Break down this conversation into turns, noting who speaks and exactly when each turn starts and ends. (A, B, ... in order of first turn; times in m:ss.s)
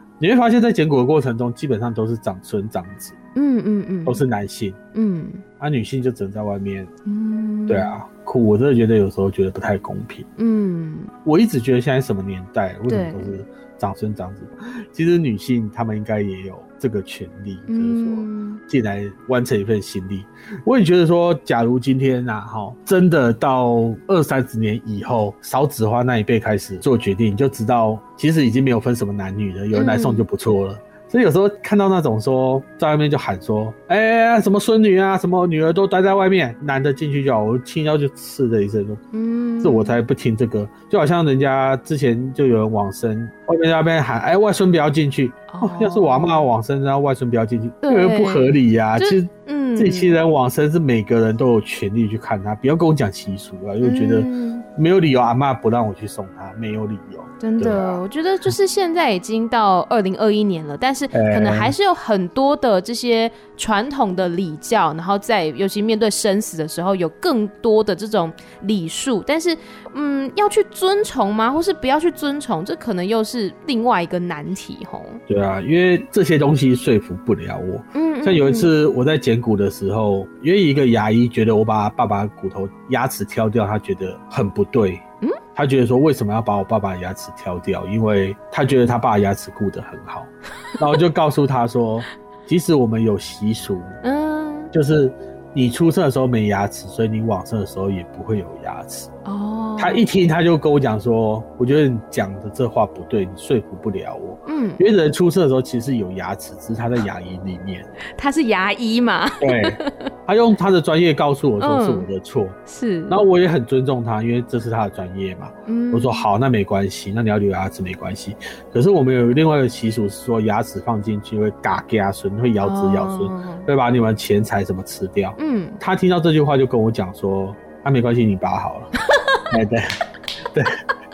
0:00.2-0:03.2 A
0:03.4-0:04.2 B
0:04.1-0:04.8 A
0:04.9-0:05.4 B
0:05.6-0:06.9 A
0:07.1-0:07.9 B
0:07.7-0:10.3 A
0:10.4-0:11.1 B
0:11.2-0:39.0 A
0:12.9-0:13.3 B
0:17.7-0:18.6 B
0:29.7-0:30.2 B
0:39.1-0:40.0 B
0:39.6-0:58.0 A
0:45.5-0:46.5 B
0:47.8-0:50.2 B
0:53.8-0:54.7 B
0:57.4-1:15.2 B
1:01.1-1:01.8 A
1:15.3-1:34.0 A
1:17.9-1:18.7 B
1:34.0-1:34.7 B
1:34.7-1:39.1 A
1:39.2-1:40.0 B
1:39.8-1:47.9 A
1:44.5-1:44.8 B
1:48.2-1:49.9 B
1:49.4-1:52.6 A
1:51.6-1:52.1 B
1:52.7-1:53.2 B
1:53.1-2:08.9 A
1:55.7-1:56.2 B
2:02.6-2:03.7 B
2:05.4-2:05.8 B
2:09.1-2:09.4 B
2:09.5-2:09.9 A
2:10.5-2:10.8 A